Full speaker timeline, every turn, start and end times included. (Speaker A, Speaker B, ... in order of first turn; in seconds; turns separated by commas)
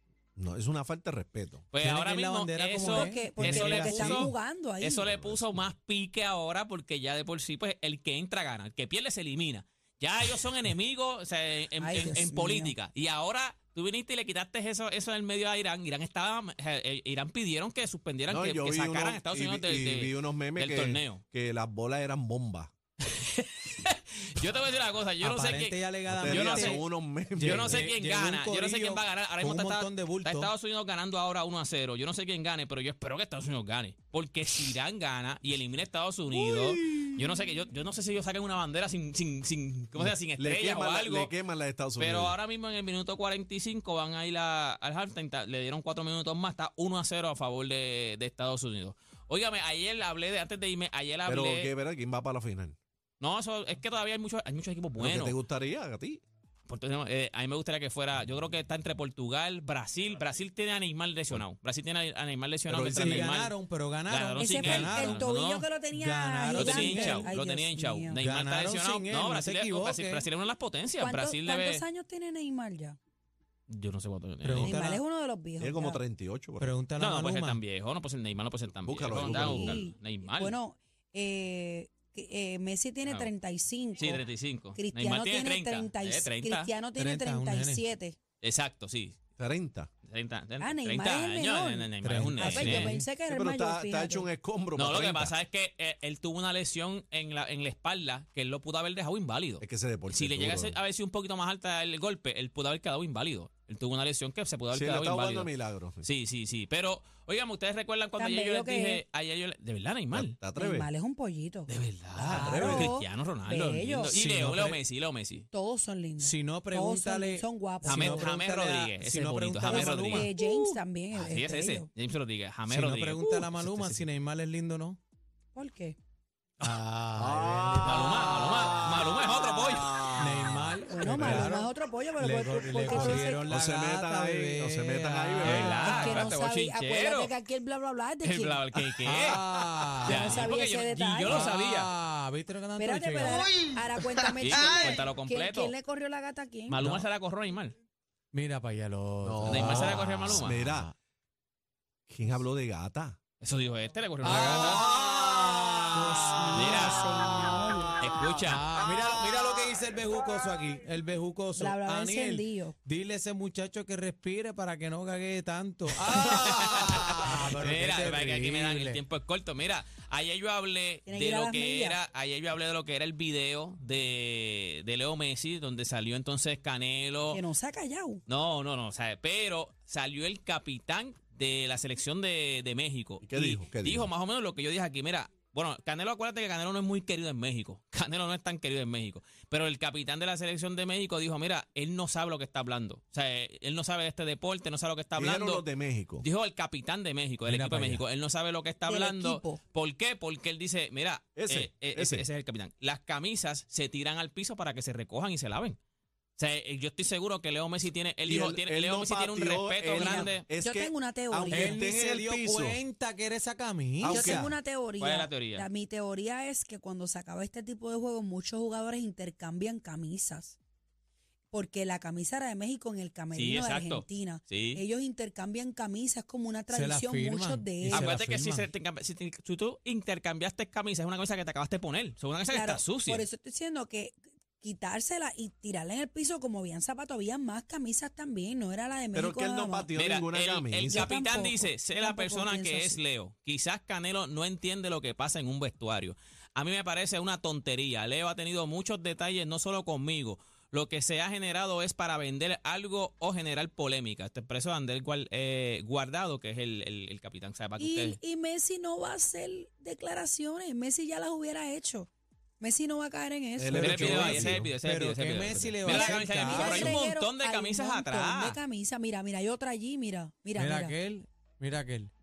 Speaker A: 0.4-1.6, Speaker B: 1.7-21.2, Speaker C: 1.8-4.3, Speaker D: 2.8-5.0, Speaker A: 5.0-5.6, Speaker D: 11.8-12.7, Speaker A: 18.3-22.7, Speaker B: 23.1-26.8, Speaker C: 25.2-26.8, Speaker A: 26.1-27.9, Speaker C: 27.4-30.5, Speaker B: 27.4-41.4, Speaker A: 36.6-37.1, Speaker A: 40.0-42.4, Speaker B: 42.0-51.7, Speaker A: 51.2-52.8, Speaker B: 53.2-55.4, Speaker A: 55.0-56.2, Speaker B: 56.7-63.5, Speaker A: 62.7-63.3, Speaker C: 63.0-65.2, Speaker B: 64.1-65.7, Speaker D: 64.4-68.2, Speaker C: 65.9-67.3, Speaker B: 66.5-71.8, Speaker C: 68.1-70.2, Speaker D: 71.0-73.0, Speaker B: 73.7-74.7, Speaker C: 74.4-75.0, Speaker D: 74.6-76.0, Speaker A: 75.6-76.7, Speaker C: 76.6-77.6, Speaker B: 77.0-80.5, Speaker A: 78.8-79.8, Speaker D: 79.2-88.2, Speaker B: 83.0-83.3, Speaker B: 84.0-86.7, Speaker C: 86.9-87.8, Speaker B: 88.4-89.2, Speaker A: 89.4-89.9, Speaker B: 90.0-93.0, Speaker D: 90.6-94.3, Speaker C: 92.0-93.1, Speaker A: 93.3-95.3, Speaker B: 94.7-110.4, Speaker A: 99.6-100.7, Speaker A: 104.7-106.1, Speaker D: 108.2-109.0, Speaker A: 110.1-110.9, Speaker D: 110.5-111.7, Speaker B: 111.7-115.5, Speaker C: 112.2-112.9, Speaker A: 112.2-112.9, Speaker D: 112.3-114.2, Speaker C: 114.0-114.8, Speaker D: 115.5-118.4, Speaker C: 116.2-120.4, Speaker B: 117.8-124.0, Speaker D: 119.6-121.9, Speaker C: 122.7-125.0, Speaker D: 125.5-126.0, Speaker C: 126.6-129.1, Speaker A: 127.1-131.5, Speaker B: 127.8-130.1, Speaker C: 130.1-136.3, Speaker D: 130.8-133.4, Speaker A: 132.9-135.7, Speaker B: 135.4-137.3, Speaker D: 135.6-138.6, Speaker B: 138.2-139.4, Speaker C: 139.0-140.5, Speaker D: 140.0-141.5, Speaker B: 140.0-141.9, Speaker C: 141.2-143.5, Speaker D: 142.8-146.8, Speaker A: 143.5-144.3, Speaker B: 144.4-145.7, Speaker B: 146.7-147.8, Speaker C: 146.8-147.1, Speaker C: 148.3-150.9, Speaker A: 149.2-150.9, Speaker B: 149.4-150.7, Speaker A: 152.1-153.2, Speaker B: 153.4-154.9, Speaker C: 154.2-169.0, Speaker D: 156.1-158.0, Speaker B: 156.5-157.1, Speaker B: 158.0-158.6, Speaker D: 161.6-162.7, Speaker B: 166.1-177.4, Speaker D: 171.1-172.0, Speaker D: 177.3-178.2, Speaker B: 178.3-195.7, Speaker A: 183.2-184.1, Speaker A: 195.2-196.2, Speaker B: 196.2-205.8, Speaker C: 197.4-198.0, Speaker D: 198.8-199.6, Speaker A: 201.3-202.2, Speaker B: 206.4-210.5, Speaker A: 208.2-212.8, Speaker D: 209.9-211.8, Speaker C: 211.5-214.5, Speaker D: 214.0-220.6, Speaker A: 214.0-214.4, Speaker B: 215.0-215.7, Speaker D: 221.5-228.1, Speaker B: 223.3-224.8, Speaker C: 226.7-228.7, Speaker B: 227.9-233.2, Speaker D: 232.5-239.9, Speaker A: 239.1-241.0, Speaker B: 239.9-258.2, Speaker D: 240.8-243.0, Speaker D: 257.8-263.8, Speaker A: 263.6-264.7, Speaker C: 263.7-267.0, Speaker B: 263.7-268.6, Speaker D: 265.8-270.9, Speaker C: 270.6-272.1